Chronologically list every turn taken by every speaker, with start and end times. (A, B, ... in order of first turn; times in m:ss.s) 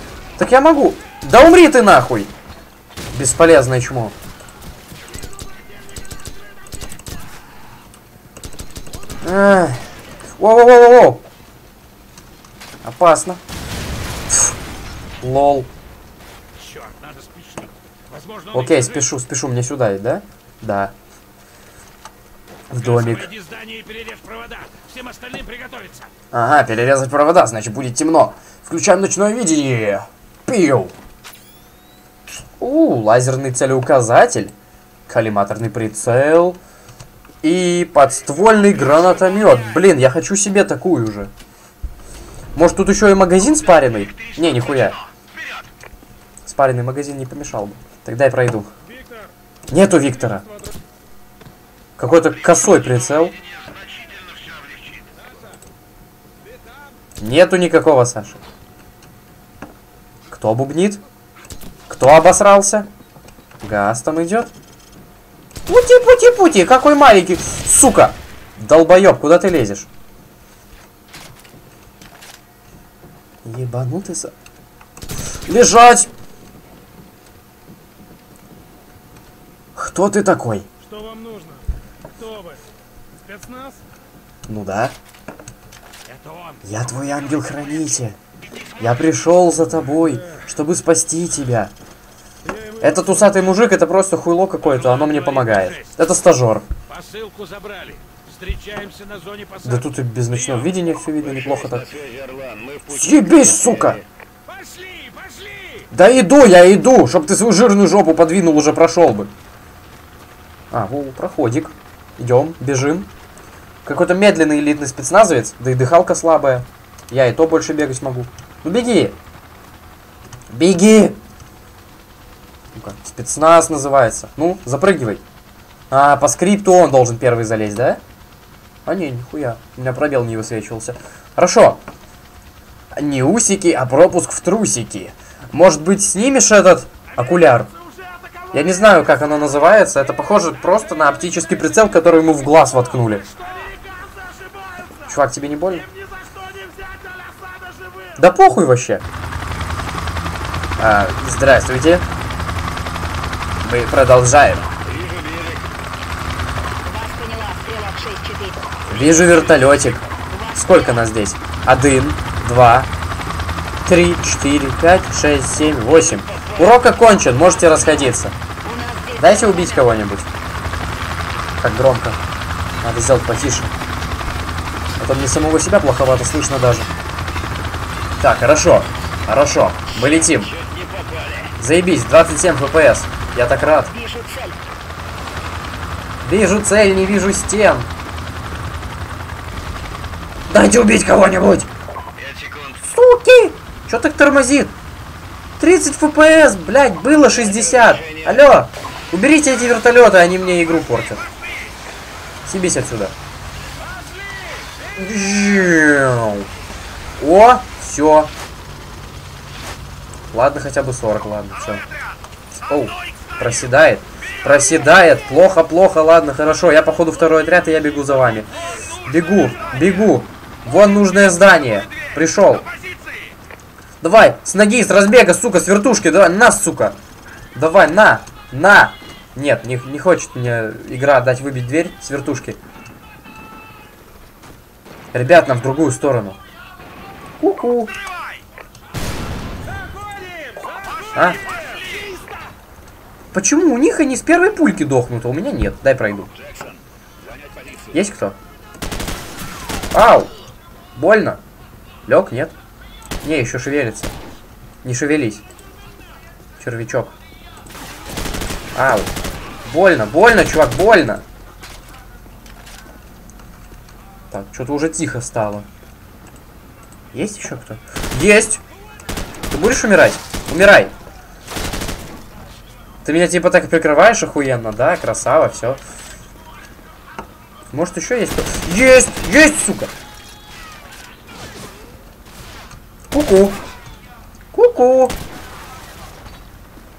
0:00.4-0:02.3 A
0:03.1-0:04.1 A
0:09.2-0:09.9 A
0:10.4-0:11.2 A
0:12.8-0:13.4 A
0:15.2-0:15.7 A
0:16.6-0:19.1 B
0:18.5-0:20.9 A
0:22.7-0:23.3 A
0:22.7-0:26.1 B
0:26.3-0:30.9 A
0:32.6-0:34.5 A
0:35.1-0:36.6 A
0:37.4-0:41.3 A
0:42.5-0:45.0 A
0:46.4-0:48.7 A
0:48.8-0:49.3 B
0:49.7-0:50.5 A
0:52.0-0:53.4 A
0:55.1-0:55.6 B
0:56.4-0:56.9 B
0:57.2-0:58.4 A
1:00.3-1:01.0 A
1:01.9-1:02.9 A
1:03.6-1:04.5 A
1:05.7-1:09.9 A
1:13.4-1:14.3 A
1:15.5-1:16.1 A
1:19.8-1:20.7 A
1:20.8-1:22.6 B
1:23.2-1:23.8 B
1:24.5-1:25.0 A
1:26.0-1:27.2 B
1:26.6-1:28.2 A
1:28.8-1:31.7 A
1:32.4-1:33.3 B
1:32.8-1:36.6 A
1:34.6-1:36.0 B
1:36.9-1:40.8 B
1:39.6-1:41.9 A
1:41.2-1:44.0 C
1:42.9-1:44.0 A
1:44.5-1:45.9 B
1:45.9-1:49.3 A
1:50.7-1:53.1 A
1:53.8-1:59.2 A
2:00.5-2:01.2 A
2:02.8-2:05.2 A
2:05.9-2:08.0 A
2:08.9-2:11.8 A
2:13.0-2:17.7 A
2:17.2-2:19.0 B
2:18.5-2:23.2 A
2:23.3-2:25.0 B
2:25.1-2:25.9 A
2:25.7-2:28.2 B
2:28.2-2:29.0 A
2:30.8-2:32.0 A
2:33.6-2:34.8 A
2:34.9-2:35.6 C
2:36.8-2:39.6 C
2:38.9-2:42.9 A
2:40.3-2:40.6 C
2:43.8-2:48.3 A
2:48.6-2:49.8 C
2:49.2-2:50.3 A
2:51.6-2:52.2 A
2:52.8-2:53.7 A
2:55.0-2:56.9 A
2:58.2-3:00.5 A
3:00.0-3:01.5 C
3:01.6-3:03.9 A
3:03.9-3:04.6 C
3:06.2-3:07.9 A
3:10.5-3:11.7 A
3:12.2-3:12.8 C
3:12.8-3:14.7 A
3:15.6-3:21.3 A
3:17.4-3:18.4 C
3:22.5-3:23.1 A
3:23.8-3:24.9 B
3:25.0-3:26.5 A
3:27.2-3:28.3 A
3:30.3-3:31.9 A
3:32.6-3:42.7 A
3:43.0-3:43.2 B
3:44.0-3:47.0 A
3:47.5-3:52.6 A
3:55.1-3:56.4 A
3:57.4-3:57.9 A
3:59.6-4:02.5 B
4:01.1-4:01.4 A
4:03.3-4:06.3 A
4:06.4-4:07.9 C
4:07.9-4:08.4 A
4:09.9-4:10.3 A
4:11.0-4:11.4 A
4:12.0-4:12.5 A
4:13.2-4:14.1 A
4:14.8-4:15.4 A
4:16.6-4:17.1 A
4:18.8-4:19.1 A
4:19.6-4:21.2 A
4:24.3-4:25.6 A
4:27.1-4:28.6 A
4:29.5-4:30.9 A
4:33.0-4:35.8 A
4:37.7-4:39.9 A
4:43.1-4:43.6 A
4:44.5-4:45.2 A